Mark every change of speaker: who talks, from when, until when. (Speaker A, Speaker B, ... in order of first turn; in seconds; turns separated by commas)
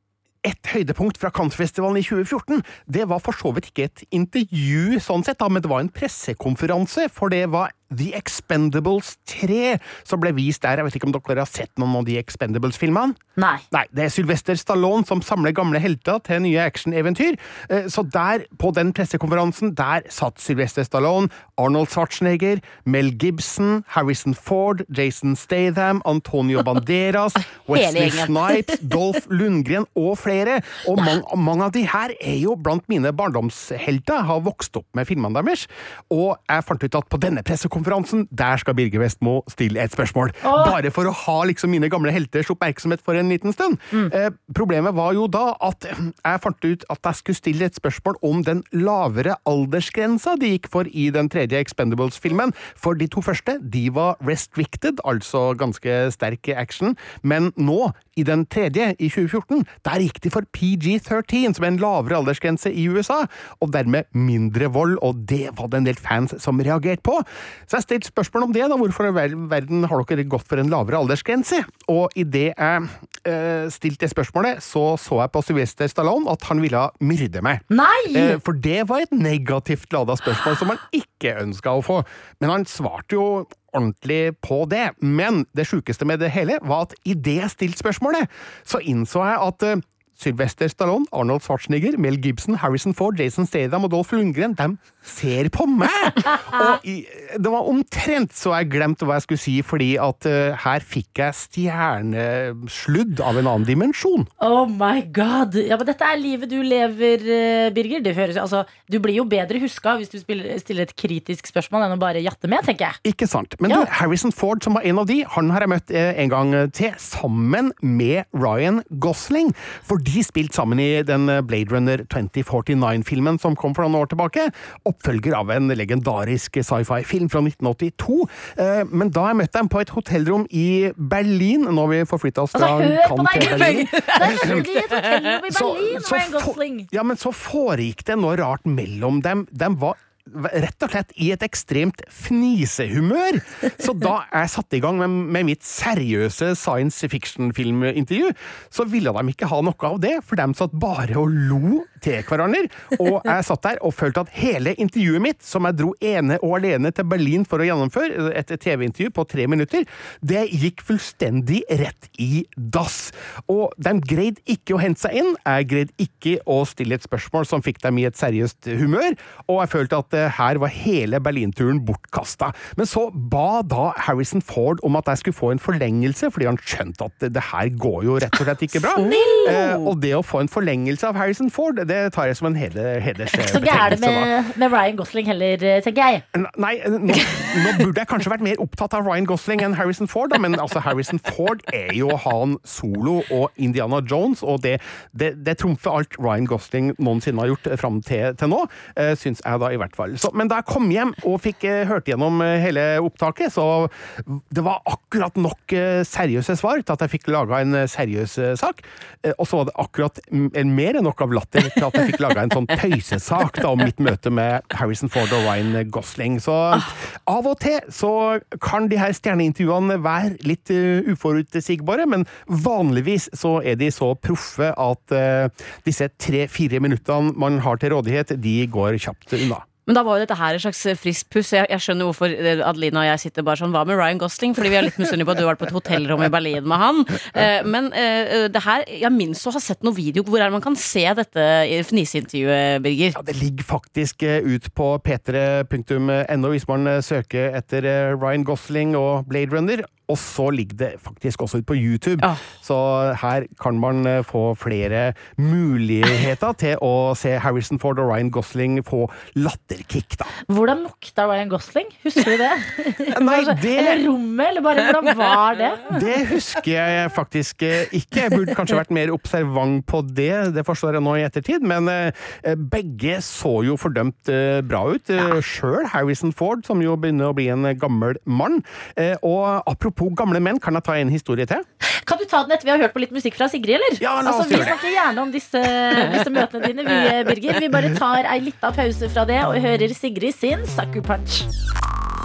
Speaker A: 0.4-13.2, Speaker B: 13.4-13.6, Speaker A: 13.7-104.3, Speaker C: 27.7-28.5, Speaker B: 40.4-40.8, Speaker B: 77.7-78.4, Speaker B: 96.5-96.8, Speaker B: 104.4-113.0, Speaker A: 113.0-134.7, Speaker B: 132.5-136.9, Speaker C: 133.4-135.3, Speaker A: 135.5-184.3, Speaker C: 178.8-179.9, Speaker B: 178.9-179.6, Speaker B: 183.4-186.2, Speaker A: 186.3-229.7, Speaker C: 229.9-243.2, Speaker A: 243.1-260.3, Speaker B: 260.5-266.0, Speaker A: 263.1-264.0, Speaker C: 265.0-265.3, Speaker A: 265.9-281.6, Speaker B: 282.0-291.5, Speaker A: 284.0-284.8